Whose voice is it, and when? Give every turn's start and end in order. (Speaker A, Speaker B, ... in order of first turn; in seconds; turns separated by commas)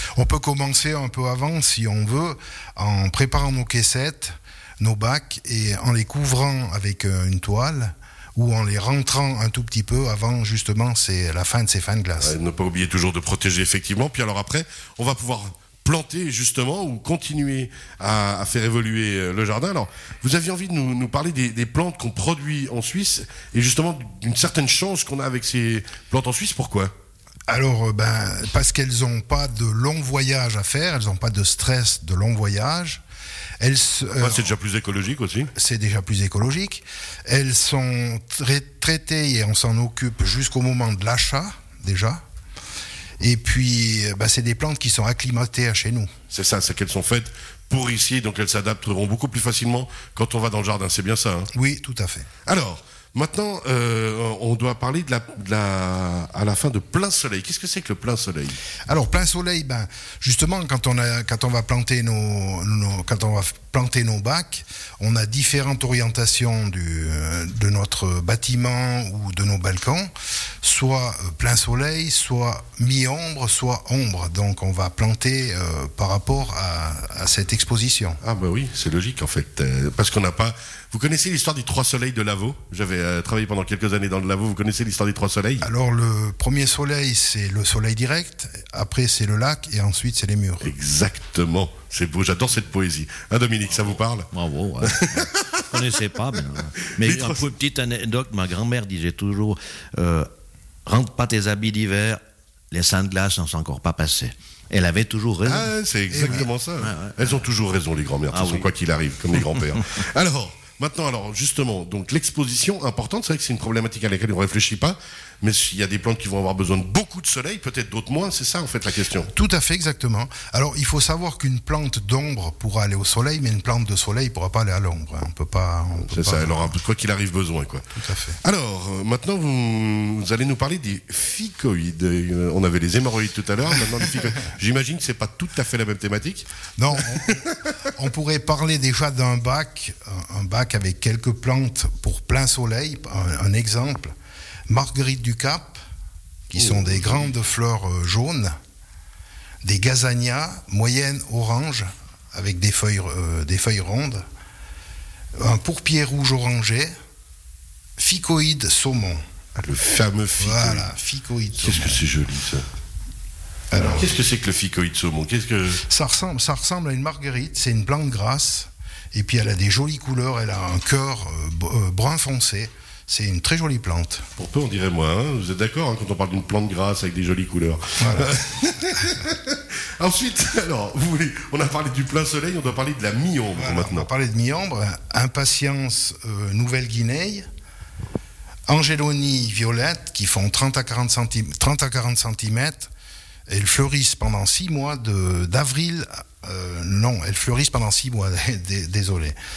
Speaker A: 0.2-12.3, Speaker B: 12.2-26.9, Speaker A: 27.5-33.0, Speaker A: 33.6-34.6, Speaker B: 34.2-35.5, Speaker A: 35.5-42.2, Speaker A: 43.2-46.1, Speaker B: 46.3-51.5, Speaker A: 51.5-52.3, Speaker B: 52.5-58.6, Speaker A: 58.9-78.2, Speaker B: 78.2-85.7, Speaker A: 85.6-90.7, Speaker B: 90.6-94.3, Speaker C: 93.7-100.3, Speaker B: 94.8-95.6, Speaker B: 97.0-97.5, Speaker C: 100.8-107.4, Speaker B: 105.4-119.3, Speaker C: 108.3-108.7, Speaker A: 119.3-126.8, Speaker B: 126.0-136.5, Speaker A: 127.9-128.4, Speaker A: 136.8-144.2, Speaker A: 144.7-145.8, Speaker A: 146.5-148.6, Speaker B: 146.6-147.3, Speaker A: 149.6-154.2, Speaker A: 155.3-156.9, Speaker A: 158.0-159.2, Speaker B: 159.6-160.9, Speaker A: 160.4-162.0, Speaker B: 161.5-162.7, Speaker A: 163.7-164.1, Speaker B: 163.7-165.8, Speaker A: 165.9-174.3, Speaker B: 174.3-184.1, Speaker A: 178.0-178.3, Speaker A: 183.6-187.5, Speaker A: 188.7-192.9, Speaker A: 193.5-199.4